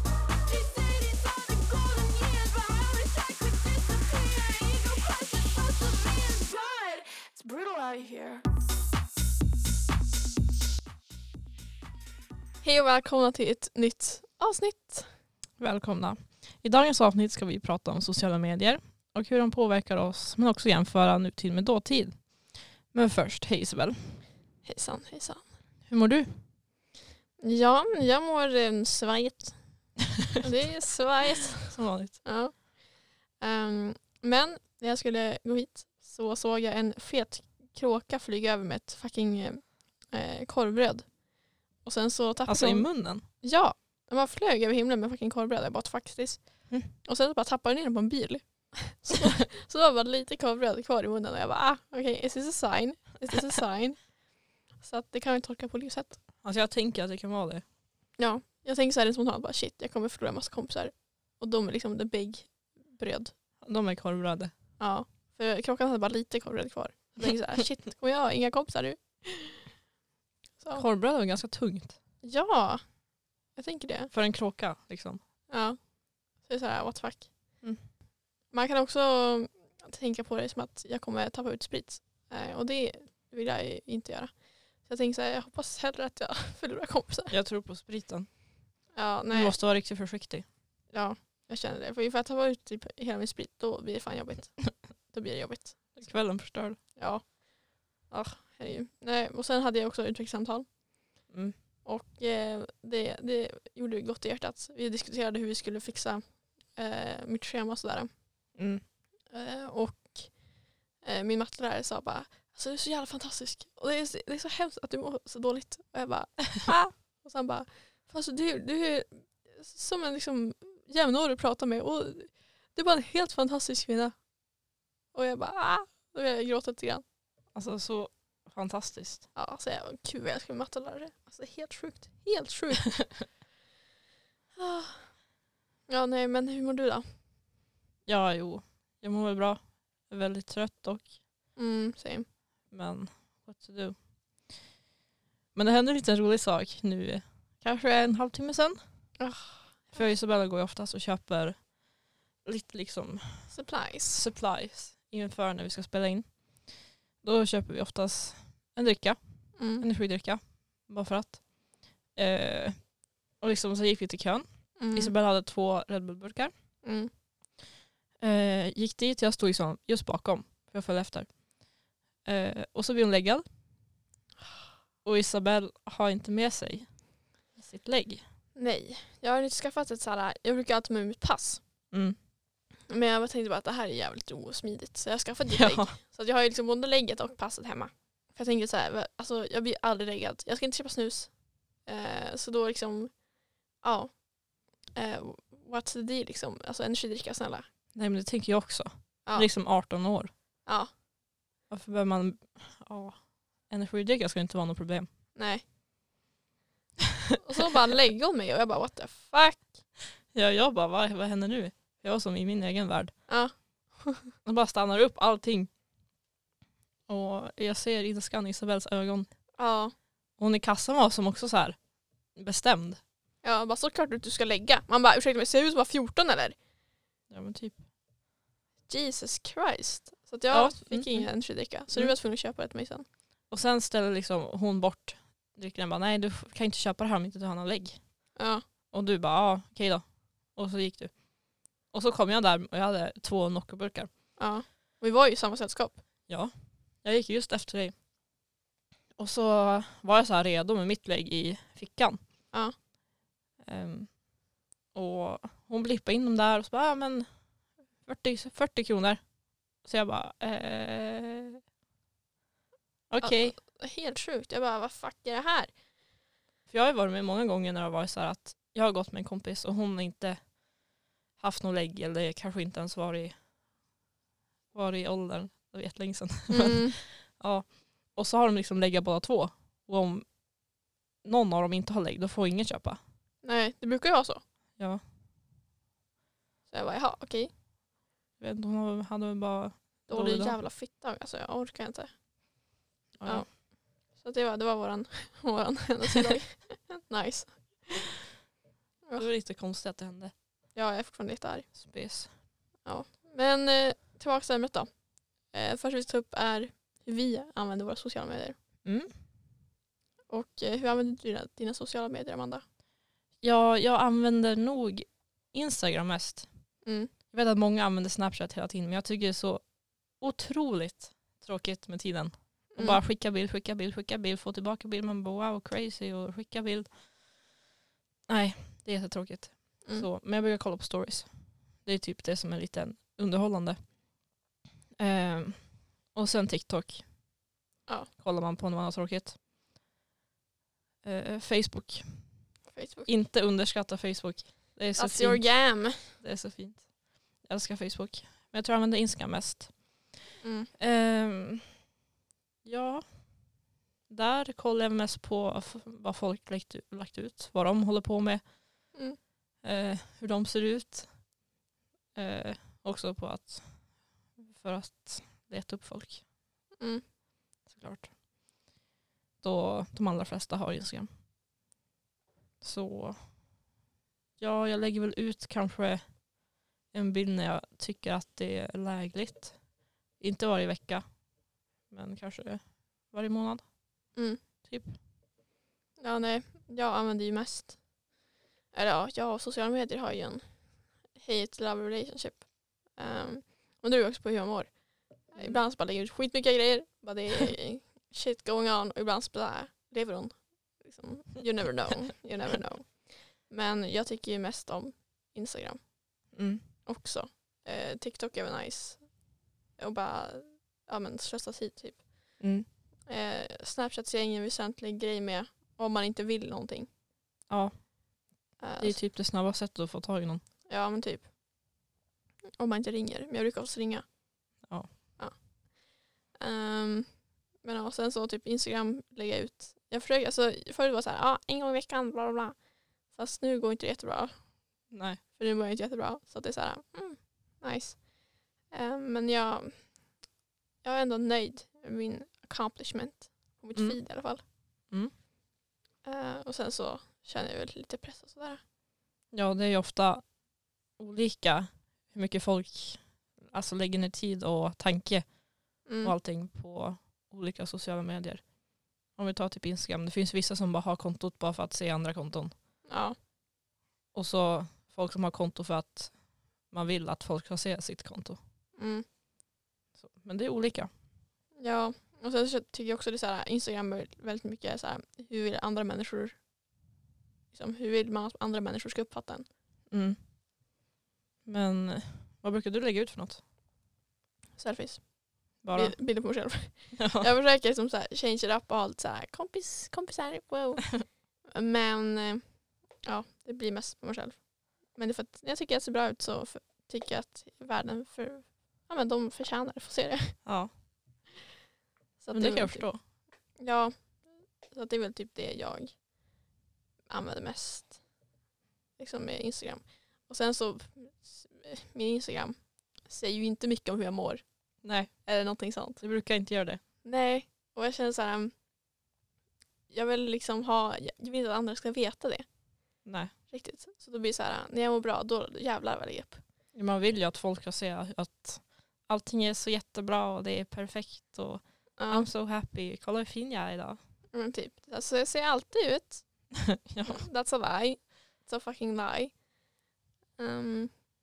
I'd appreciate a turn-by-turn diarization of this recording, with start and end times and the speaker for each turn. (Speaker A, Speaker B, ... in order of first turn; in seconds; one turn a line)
Speaker A: 0.3-8.4
Speaker B: 12.6-15.1
Speaker C: 15.6-24.2
Speaker B: 24.6-25.4
Speaker C: 25.9-26.4
Speaker B: 27.4-29.6
Speaker B: 30.4-41.2
Speaker C: 31.6-32.2
Speaker B: 41.8-54.2
Speaker C: 42.5-43.2
Speaker B: 54.7-56.2
Speaker C: 56.4-57.6
Speaker B: 58.2-63.3
Speaker C: 63.6-64.5
Speaker B: 64.8-69.7
Speaker C: 70.7-72.0
Speaker B: 72.2-72.8
Speaker B: 73.5-74.1
Speaker C: 74.1-75.2
Speaker B: 75.5-75.8
Speaker B: 76.4-77.6
Speaker B: 78.5-87.3
Speaker C: 87.3-88.3
Speaker B: 88.9-89.6
Speaker C: 89.3-90.5
Speaker B: 90.9-96.0
Speaker C: 96.0-96.8
Speaker B: 96.9-100.7
Speaker C: 101.3-101.5
Speaker B: 101.8-108.1
Speaker C: 108.5-108.8
Speaker B: 109.3-124.2
Speaker B: 125.1-127.0
Speaker C: 127.5-129.3
Speaker B: 129.3-133.3
Speaker B: 134.6-135.1
Speaker B: 135.9-137.1
Speaker C: 138.1-141.1
Speaker B: 141.6-142.3
Speaker C: 142.7-143.9
Speaker C: 145.5-148.8
Speaker B: 149.2-150.0
Speaker C: 149.9-151.7
Speaker C: 152.4-156.3
Speaker B: 153.5-154.2
Speaker C: 157.2-161.4
Speaker B: 159.6-159.8
Speaker C: 162.1-166.5
Speaker B: 164.8-165.1
Speaker B: 166.8-167.1
Speaker C: 168.2-171.4
Speaker C: 172.2-173.4
Speaker C: 175.0-177.0
Speaker C: 177.5-178.2
Speaker B: 178.5-181.6
Speaker C: 181.9-182.2
Speaker B: 182.9-193.2
Speaker C: 185.5-185.9
Speaker B: 193.8-194.3
Speaker B: 194.8-197.7
Speaker C: 197.9-200.3
Speaker B: 200.7-200.9
Speaker C: 201.7-205.1
Speaker B: 205.3-205.6
Speaker B: 207.4-209.8
Speaker C: 210.3-213.2
Speaker B: 213.3-214.3
Speaker C: 214.4-215.7
Speaker C: 217.1-219.3
Speaker B: 219.6-219.9
Speaker C: 220.4-221.8
Speaker C: 222.3-223.0
Speaker B: 223.4-226.6
Speaker C: 227.3-227.8
Speaker B: 228.9-233.0
Speaker C: 230.5-232.1
Speaker C: 233.5-238.3
Speaker B: 238.3-238.6
Speaker C: 238.9-241.2
Speaker C: 241.8-244.1
Speaker B: 244.4-246.0
Speaker C: 246.3-247.9
Speaker C: 249.2-252.2
Speaker C: 253.6-254.2
Speaker C: 254.9-257.3
Speaker C: 258.0-259.2
Speaker C: 259.8-261.6
Speaker C: 263.1-263.5
Speaker B: 263.2-265.7
Speaker C: 266.7-270.5
Speaker C: 271.4-273.3
Speaker C: 274.7-280.4
Speaker B: 276.5-276.9
Speaker C: 281.2-283.0
Speaker B: 283.4-284.4
Speaker B: 286.7-287.5
Speaker C: 288.4-290.6
Speaker B: 290.1-292.1
Speaker C: 293.2-293.5
Speaker B: 293.2-298.1
Speaker C: 299.1-300.3
Speaker B: 300.7-301.7
Speaker C: 301.8-302.3
Speaker B: 302.8-308.6
Speaker C: 308.8-309.1
Speaker B: 310.3-312.6
Speaker C: 313.4-316.5
Speaker B: 316.8-317.1
Speaker C: 317.3-327.0
Speaker B: 322.7-323.0
Speaker C: 328.3-331.3
Speaker C: 331.8-333.9
Speaker C: 335.0-337.1
Speaker C: 338.2-339.4
Speaker C: 341.0-342.3
Speaker B: 342.7-343.1
Speaker C: 343.1-350.1
Speaker B: 345.0-346.2
Speaker B: 350.4-350.7
Speaker C: 350.8-351.7
Speaker C: 352.6-353.0
Speaker C: 354.1-358.4
Speaker C: 359.6-361.1
Speaker C: 362.1-366.2
Speaker B: 366.8-367.0
Speaker C: 367.6-368.1
Speaker C: 369.4-371.1
Speaker C: 372.6-373.3
Speaker C: 374.4-376.2
Speaker C: 376.9-379.6
Speaker C: 380.2-381.2
Speaker C: 381.9-383.7
Speaker B: 384.1-384.4
Speaker C: 384.6-385.0
Speaker B: 386.0-387.9
Speaker B: 388.7-406.3
Speaker C: 395.4-395.6
Speaker C: 406.3-406.6
Speaker B: 406.9-409.2
Speaker B: 409.8-412.4
Speaker C: 412.4-412.7
Speaker B: 413.1-416.9
Speaker B: 418.6-419.0
Speaker C: 418.8-420.4
Speaker B: 420.7-421.3
Speaker B: 422.6-424.1
Speaker C: 424.6-424.9
Speaker B: 425.2-425.5
Speaker B: 426.3-432.6
Speaker B: 433.1-440.0
Speaker C: 434.9-435.2
Speaker B: 440.8-444.4
Speaker C: 443.7-444.1
Speaker C: 444.9-445.1
Speaker B: 446.0-448.6
Speaker C: 449.3-450.4
Speaker C: 450.9-458.5
Speaker B: 455.9-456.1
Speaker C: 459.1-462.5
Speaker B: 462.9-463.1
Speaker C: 464.1-466.2
Speaker C: 466.7-468.4
Speaker B: 468.8-469.0
Speaker C: 470.0-470.9
Speaker B: 471.6-476.4
Speaker B: 477.5-479.4
Speaker C: 479.9-480.2
Speaker C: 481.4-483.4
Speaker B: 484.6-500.4
Speaker C: 485.6-486.0
Speaker C: 487.0-487.2
Speaker C: 500.4-500.7
Speaker B: 502.2-502.9
Speaker C: 502.3-503.0
Speaker B: 503.6-505.9
Speaker B: 507.1-508.0
Speaker B: 509.0-514.4
Speaker C: 514.8-515.1
Speaker B: 515.2-516.0
Speaker C: 516.0-516.8
Speaker B: 517.0-518.5
Speaker B: 519.9-522.4
Speaker C: 523.0-523.3
Speaker B: 523.5-526.4
Speaker C: 526.7-534.0
Speaker B: 532.0-532.3
Speaker B: 534.3-536.5
Speaker C: 536.7-537.2
Speaker B: 537.0-539.4
Speaker B: 540.4-541.0